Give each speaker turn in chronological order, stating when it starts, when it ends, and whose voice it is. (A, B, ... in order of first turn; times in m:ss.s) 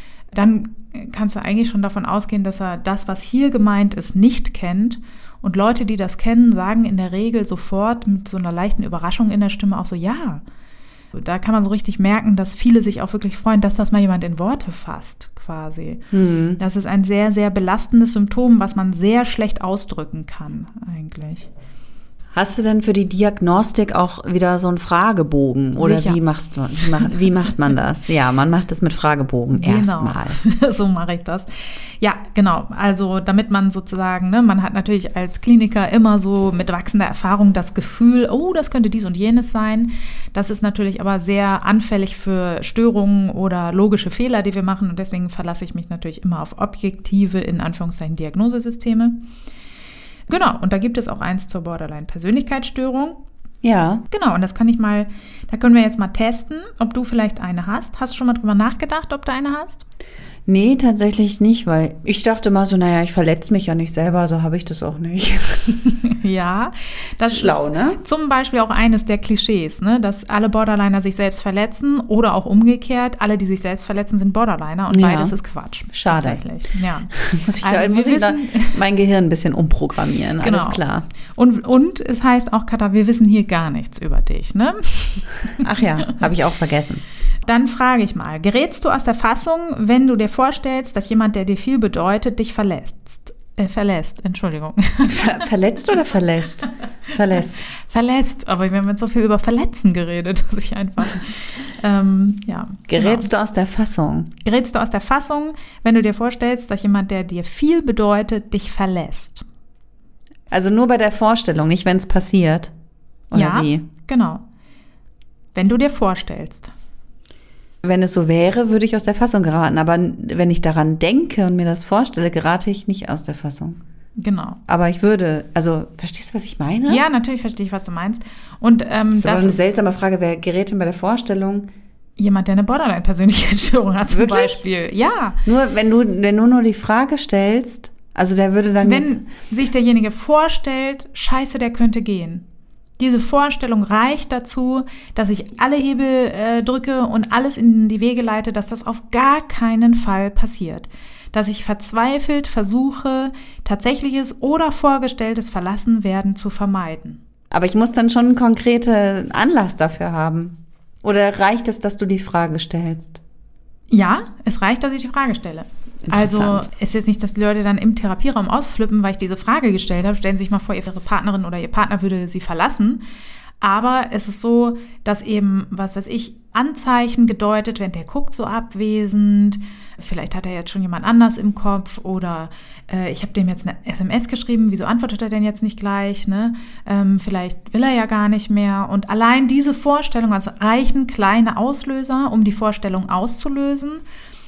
0:00.3-0:10.4 A
0:11.1-0:16.0 A
0:16.1-0:16.6 B
0:16.6-0:21.5 A
0:22.3-0:30.4 B
0:25.8-0:26.2 A
0:26.8-0:27.2 A
0:29.5-0:49.2 A
0:50.3-0:53.2 A
0:53.6-0:54.0 B
0:54.1-0:59.8 A
1:00.4-1:06.0 B
1:06.0-1:18.8 A
1:07.2-1:08.0 B
1:14.9-1:15.3 B
1:15.9-1:16.4 B
1:17.1-1:21.0 B
1:20.4-1:20.8 A
1:21.4-1:25.6 A
1:25.6-1:27.0 B
1:27.4-1:35.4 A
1:35.1-1:37.6 B
1:37.7-1:43.3 A
1:42.9-1:44.3 B
1:44.4-1:49.4 A
1:50.5-1:52.7 B
1:53.3-1:53.8 B
1:53.3-1:54.4 A
1:55.5-1:56.7 A
1:57.8-2:03.8 B
2:04.2-2:04.6 A
2:04.7-2:07.0 B
2:06.9-2:09.6 A
2:09.1-2:11.7 B
2:12.2-2:15.4 A
2:14.1-2:14.6 B
2:15.4-2:19.2 B
2:18.8-2:22.4 A
2:23.0-2:37.2 A
2:37.5-2:43.2 B
2:43.9-2:53.0 A
2:46.0-2:46.7 B
2:53.6-3:14.0 A